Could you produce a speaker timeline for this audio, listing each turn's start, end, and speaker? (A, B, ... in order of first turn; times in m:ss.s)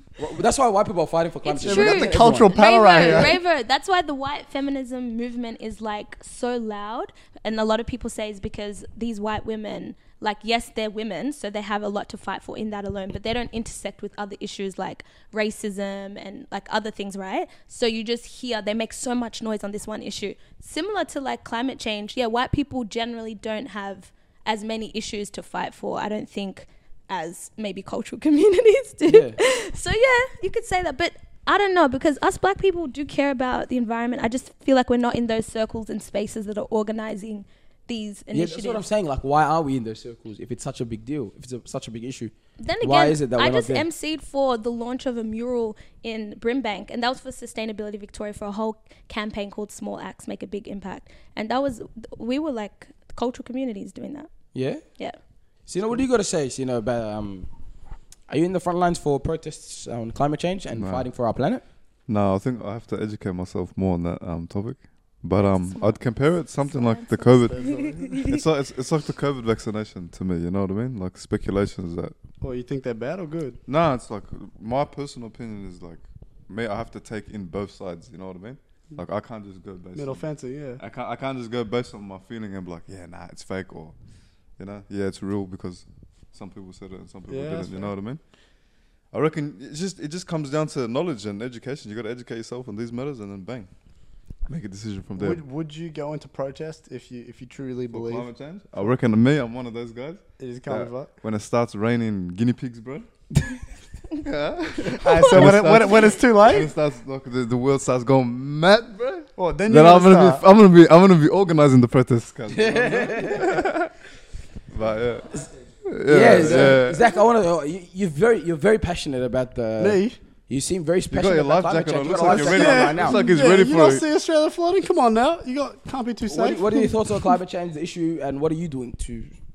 0:00.2-0:03.3 A
0:01.4-0:38.8 B
0:01.6-0:03.4 C
0:29.1-0:29.4 A
0:38.3-0:43.9 A
0:42.6-0:54.3 B
0:54.5-0:54.9 A
0:54.9-0:55.2 B
0:55.7-0:57.5 A
0:58.3-1:01.6 A
1:00.8-1:01.0 D
1:02.1-1:12.1 D
1:06.7-1:08.4 B
1:07.5-1:08.3 C
1:12.4-1:13.6 C
1:13.7-1:20.2 D
1:19.9-1:20.8 C
1:20.8-1:24.0 D
1:24.6-1:28.2 D
1:27.3-1:27.9 C
1:29.1-1:33.7 D
1:34.5-1:35.4 D
1:35.2-1:38.3 C
1:37.9-1:43.6 D
1:40.4-1:41.1 C
1:44.1-1:53.9 D
1:44.9-1:46.7 C
1:49.4-1:50.4 C
1:52.5-1:53.6 A
1:54.7-1:57.1 D
1:56.1-2:03.2 A
1:56.2-1:56.8 C
1:59.8-2:00.2 C
2:01.1-2:04.0 D
2:02.3-2:06.6 C
2:06.3-2:09.3 A